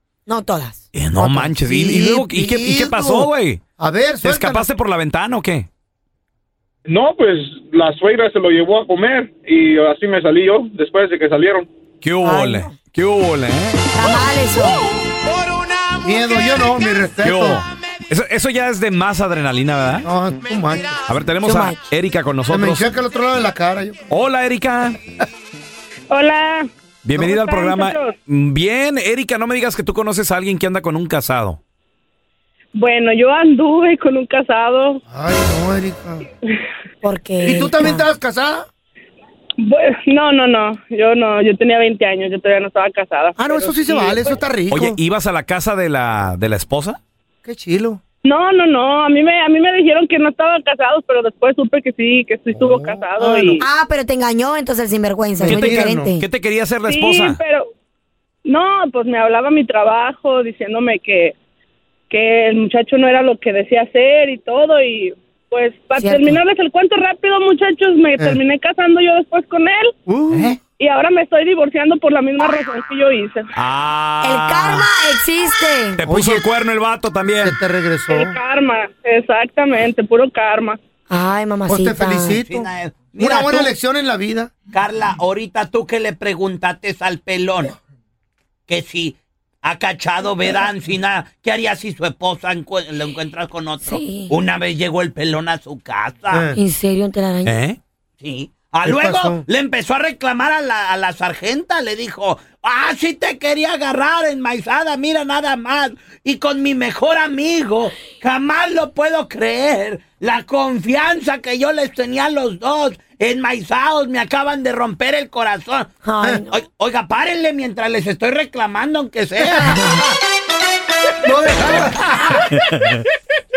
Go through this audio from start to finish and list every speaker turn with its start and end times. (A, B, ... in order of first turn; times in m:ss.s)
0:00.3-0:00.8 A
0:00.9-0:03.6 B
0:01.1-0:04.7 C
0:04.2-0:05.7 B
0:06.9-0:11.7 D
0:12.0-0:14.0 B
0:12.2-0:12.8 A
0:13.9-0:14.9 A
0:16.0-0:17.6 C
0:17.2-0:20.1 B
0:20.0-0:21.0 C
0:21.1-0:22.9 B
0:21.4-0:21.8 A
0:22.5-0:24.0 C
0:24.1-0:25.0 B
0:26.1-0:26.7 E
0:27.0-0:31.6 B
0:27.3-0:28.1 E
0:32.7-0:35.0 E
0:35.1-0:36.2 C
0:37.0-0:38.1 A
0:37.4-0:38.7 C
0:39.6-0:44.2 E
0:43.4-0:45.0 C
0:44.7-0:47.0 B
0:47.4-0:48.0 C
0:48.2-0:53.6 E
0:52.5-0:53.6 C
0:53.6-0:56.2 A
0:55.4-0:56.2 C
0:55.5-0:57.4 B
0:56.9-0:57.6 E
0:58.4-1:01.3 E
1:02.1-1:09.9 E
1:06.0-1:06.4 A
1:10.0-1:10.6 C
1:10.3-1:10.6 B
1:10.8-1:13.4 E
1:13.6-1:14.8 B
1:14.2-1:16.0 A
1:16.0-1:17.6 B
1:16.0-1:16.5 C
1:17.4-1:18.4 C
1:18.1-1:20.8 E
1:21.1-1:22.4 A
1:21.6-1:22.7 C
1:22.4-1:23.7 F
1:23.2-1:24.5 C
1:23.3-1:23.6 A
1:24.7-1:27.7 F
1:28.7-1:36.5 F
1:33.8-1:34.4 A
1:36.3-1:36.6 C
1:36.5-1:37.6 A
1:37.4-1:37.8 B
1:38.2-1:59.8 F
1:38.8-1:39.5 C
1:56.0-1:56.6 A
1:59.4-2:00.0 C
1:59.7-2:00.0 A
2:01.2-2:02.4 C